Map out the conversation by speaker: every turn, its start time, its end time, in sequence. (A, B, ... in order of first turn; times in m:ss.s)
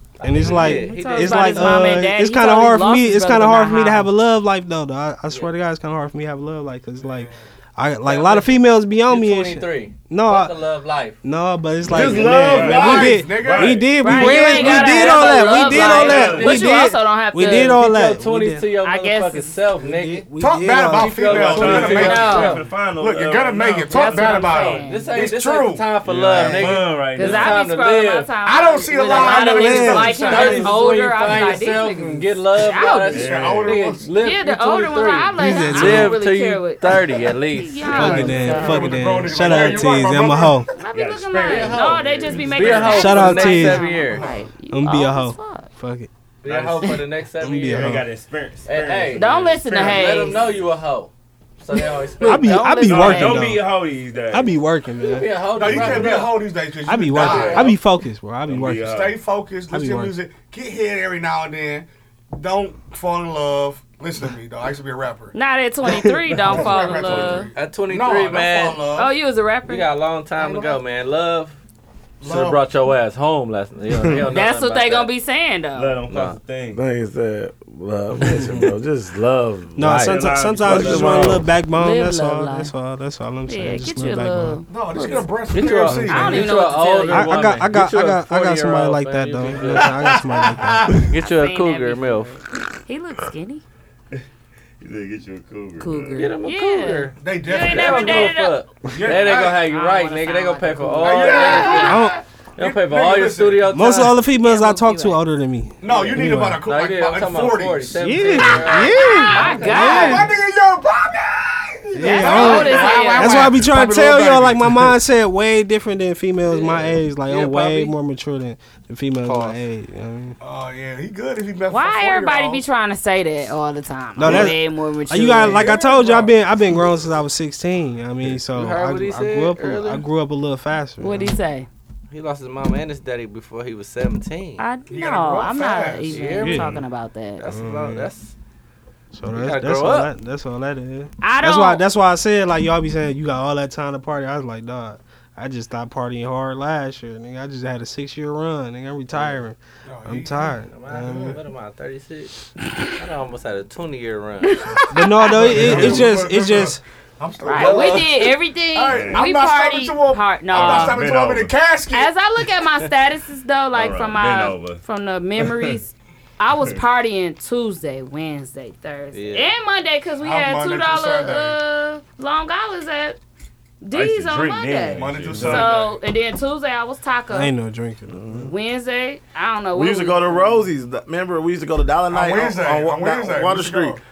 0:00.2-0:02.0 A
0:00.2-0:10.6 B
0:00.5-0:04.1 C
0:07.0-0:07.4 D
0:08.0-0:11.2 A
0:11.2-0:18.7 B
0:11.9-0:13.2 E
0:11.9-0:16.6 F
0:12.5-0:13.8 D
0:14.0-0:17.8 C
0:15.8-0:20.3 A
0:18.8-0:19.6 C
0:19.8-0:21.8 B
0:20.4-0:25.9 D
0:20.9-0:22.6 A
0:21.2-0:24.7 F
0:21.9-0:22.6 C
0:23.9-0:25.1 C
0:24.4-0:28.3 A
0:26.0-0:27.6 F
0:26.4-0:26.7 D
0:27.2-0:33.2 C
0:28.4-0:30.7 D
0:29.1-0:30.7 B
0:30.2-0:38.6 A
0:33.1-0:33.9 F
0:33.1-0:34.1 D
0:34.2-0:39.8 C
0:35.4-0:36.2 B
0:37.9-0:40.6 D
0:37.9-0:40.7 B
0:40.8-0:45.7 C
0:40.9-0:43.2 F
0:41.4-0:44.3 A
0:42.9-0:43.9 B
0:44.7-0:46.1 B
0:46.4-0:48.0 A
0:46.5-0:47.0 F
0:47.4-0:48.1 B
0:47.7-0:50.7 F
0:48.6-0:52.6 A
0:49.2-0:50.4 C
0:52.2-0:53.5 C
0:52.2-0:56.1 B
0:52.8-0:54.6 F
0:55.0-0:56.4 A
0:55.5-0:57.7 D
0:55.7-0:56.0 F
0:56.9-0:59.0 B
0:57.2-0:57.6 E
0:57.3-0:57.8 F
0:58.5-0:59.2 F
0:58.9-1:05.4 D
0:59.7-1:00.1 B
1:05.3-1:07.5 C
1:06.4-1:09.1 D
1:07.5-1:08.9 A
1:09.0-1:09.9 C
1:09.7-1:11.6 A
1:10.4-1:10.8 D
1:12.2-1:12.6 D
1:12.2-1:15.1 A
1:14.3-1:16.0 C
1:15.8-1:16.8 F
1:16.1-1:16.4 A
1:16.7-1:21.5 E
1:19.8-1:24.6 B
1:19.8-1:21.5 F
1:21.8-1:22.7 C
1:23.5-1:24.7 C
1:24.7-1:26.5 D
1:24.9-1:25.3 E
1:25.5-1:30.2 A
1:25.9-1:26.4 B
1:26.1-1:27.4 C
1:27.1-1:31.1 B
1:29.7-1:30.5 D
1:31.0-1:32.4 A
1:31.2-1:33.6 C
1:34.8-1:36.3 F
1:35.8-1:38.6 C
1:36.2-1:44.2 A
1:37.2-1:38.4 D
1:38.9-1:39.6 D
1:39.4-1:42.0 C
1:41.0-1:43.7 D
1:41.8-1:42.2 B
1:43.7-1:46.6 B
1:44.4-1:45.2 C
1:45.8-1:48.5 D
1:45.9-1:50.2 A
1:48.0-1:50.3 B
1:48.8-1:50.3 C
1:49.4-1:55.0 D
1:51.9-2:00.4 B
1:52.0-1:53.6 C
1:56.5-1:58.0 A
1:59.2-1:59.6 A
2:00.4-2:02.6 D
2:01.7-2:05.7 C
2:04.2-2:11.4 B
2:05.4-2:06.4 D
2:08.5-2:10.1 A
2:11.0-2:11.7 C
2:12.1-2:14.6 A
2:14.6-2:17.4 C
2:14.9-2:16.3 D
2:16.1-2:16.8 A
2:16.4-2:16.8 B
2:17.4-2:18.3 A
2:17.5-2:18.1 B
2:19.1-2:31.4 B
2:19.3-2:20.1 A
2:21.2-2:21.8 C
2:29.1-2:29.4 A
2:29.8-2:31.4 D
2:30.7-2:32.4 A
2:33.0-2:34.7 A
2:34.4-2:35.4 C
2:34.9-2:36.8 B
2:35.3-2:42.1 D
2:35.5-2:36.0 F
2:35.7-2:35.9 A
2:37.4-2:41.0 C
2:37.5-2:38.3 A
2:38.9-2:39.3 F
2:40.5-2:41.5 F
2:41.9-2:53.2 C
2:43.7-2:44.8 F
2:45.4-2:45.7 F
2:49.1-2:49.5 A
2:50.2-2:51.6 D
2:53.8-2:57.5 C
2:53.9-2:55.8 F
2:55.0-2:56.0 D
2:57.3-2:58.5 B
2:58.1-2:58.5 E
2:58.5-3:00.6 C
2:59.7-3:04.0 E
3:02.1-3:04.0 D